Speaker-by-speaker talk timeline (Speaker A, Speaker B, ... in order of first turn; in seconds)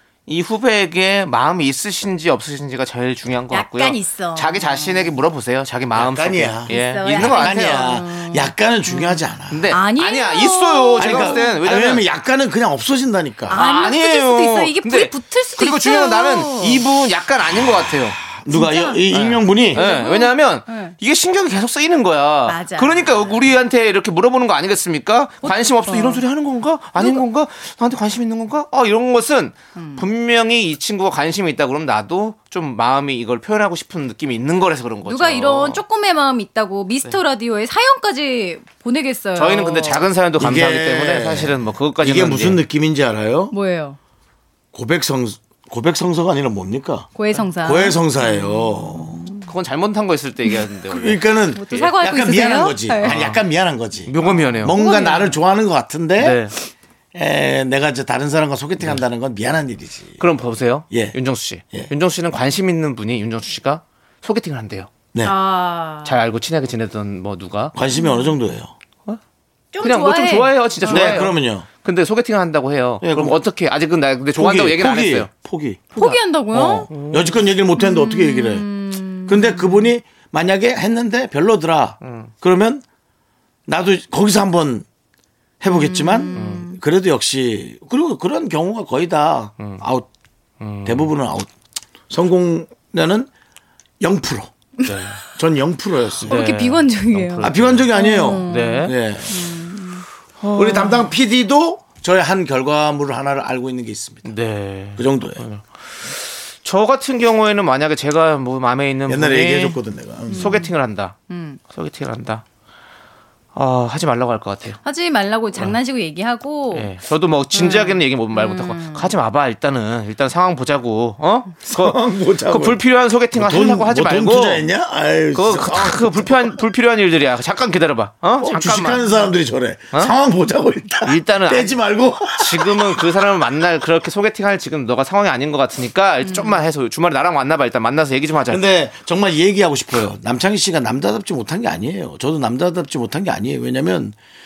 Speaker A: 0.3-7.9, 9.5-12.1, 13.5-18.2, 19.1-35.8, 39.4-42.6, 49.5-51.9, 53.0-53.4, 54.1-54.8, 56.2-56.5, 60.2-64.9, 66.0-67.8, 69.8-75.3, 76.9-77.4, 82.0-82.3, 86.4-86.7, 90.6-91.1, 94.9-95.2, 96.3-97.9, 98.5-98.9, 104.3-111.2, 111.7-112.4, 113.5-114.8, 116.7-124.7, 125.3-129.1, 131.1-131.7, 132.3-138.6
Speaker B: 3.5-5.1, 6.7-11.6, 13.5-16.8, 18.5-19.0, 19.7-20.9, 22.5-23.4, 25.4-26.2, 27.0-27.2, 29.8-30.1, 35.0-40.0, 43.5-44.0, 47.1-49.5, 51.5-53.2, 54.2-55.4, 65.2-66.1, 67.9-68.3, 69.7-71.3, 76.0-76.9, 77.8-79.9, 85.7-86.8, 94.8-95.3, 96.2-101.0, 110.3-110.7, 111.3-111.6, 114.8-116.9, 117.5-119.1, 136.2-136.6
Speaker C: 5.9-9.7, 11.0-13.6, 18.3-19.8, 40.4-43.5, 44.7-47.1, 47.6-49.2, 50.9-56.4, 57.1-60.2, 60.9-61.2, 67.7-68.7, 70.9-71.7, 73.0-73.4, 74.3-78.7, 79.3-82.8, 83.7-84.9, 85.6-90.1, 90.8-91.5, 92.1-93.3, 94.0-94.5, 95.3-96.4, 97.4-99.5, 100.5-104.3, 105.0-105.5, 109.1-110.6, 121.7-122.8, 123.3-126.6, 128.4-133.3, 138.5-144.2